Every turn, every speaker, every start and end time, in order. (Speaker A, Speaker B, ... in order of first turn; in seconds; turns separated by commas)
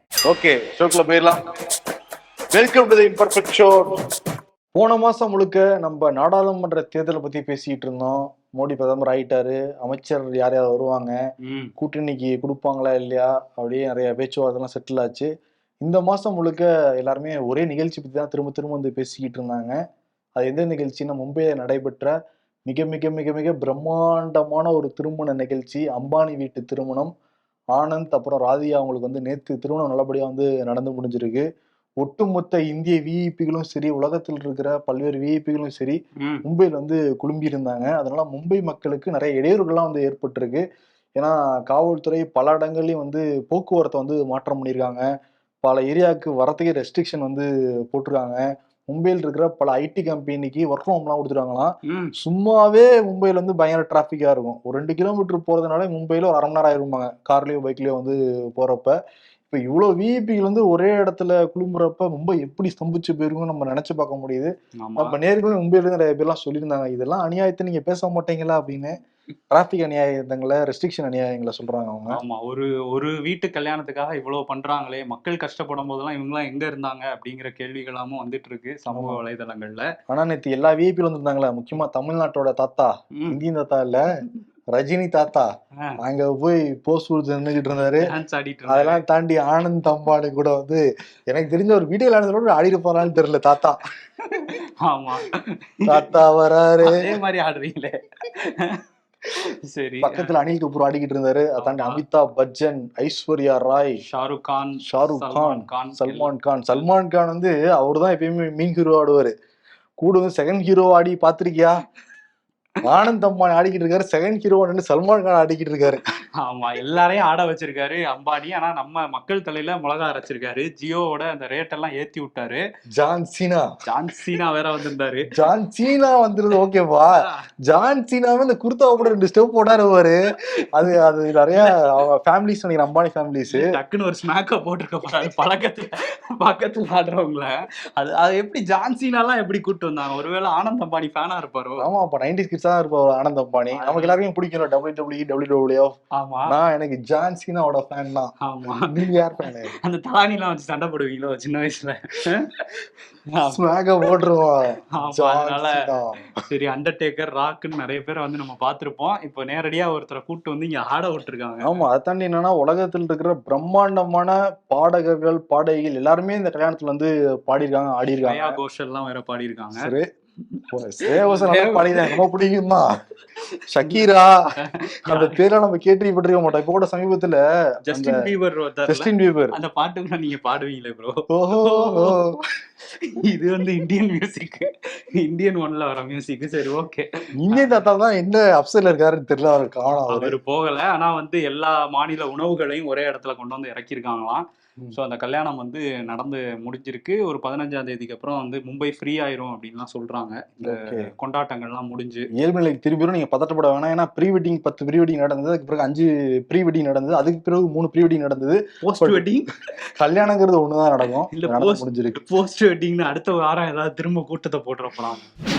Speaker A: 0.3-1.4, Speaker A: 2.5-3.9, Speaker A: 4.7-11.2, Speaker B: 11.4-11.7, Speaker A: 11.8-15.3, Speaker A: 15.8-19.8, Speaker A: 20.4-22.1, Speaker A: 22.6-27.1, Speaker A: 27.7-31.4, Speaker A: 32.0-40.6, Speaker A: 41.1-45.1, Speaker A: 45.6-58.9, Speaker A: 59.5-69.0, Speaker B: 64.8-65.1, Speaker A: 69.5-72.2, Speaker B: 72.1-79.8, Speaker A: 78.9-79.2, Speaker A: 80.1-84.0, Speaker A: 84.7-88.1, Speaker B: 88.0-89.0, Speaker A: 88.7-93.8, Speaker B: 94.2-96.2, Speaker A: 95.8-97.0, Speaker B: 96.8-98.8, Speaker B: 99.3-100.3, Speaker A: 100.0-104.0, Speaker B: 101.6-102.0, Speaker B: 104.0-106.3, Speaker A: 104.8-109.3, Speaker A: 110.0-111.8, Speaker A: 112.8-116.0, Speaker B: 116.4-122.6, Speaker A: 122.9-123.7, Speaker B: 123.8-125.3, Speaker A: 125.3-133.7, Speaker B: 127.1-127.5, Speaker B: 130.6-130.9, Speaker B: 131.5-131.9, Speaker B: 133.5-141.8, Speaker A: 141.8-145.9, Speaker B: 143.7-144.2, Speaker B: 146.2-146.5, Speaker A: 146.5-149.7, Speaker B: 148.4-148.9, Speaker B: 149.8-153.6, Speaker A: 153.4-156.2, Speaker B: 154.9-155.8, Speaker B: 156.3-161.8, Speaker A: 161.6-168.6, Speaker B: 168.2-169.9, Speaker A: 169.7-170.1, Speaker B: 170.5-172.3, Speaker A: 170.7-172.9, Speaker A: 173.7-174.4, Speaker B: 174.6-175.4, Speaker A: 175.1-178.2, Speaker B: 177.9-182.2, Speaker A: 178.9-179.6, Speaker A: 181.3-182.4, Speaker B: 182.9-187.7, Speaker A: 187.4-190.4, Speaker B: 190.1-202.3, Speaker A: 200.6-201.1, Speaker A: 202.3-209.2, Speaker B: 208.8-209.6, Speaker A: 210.0-212.2, Speaker B: 211.3-215.3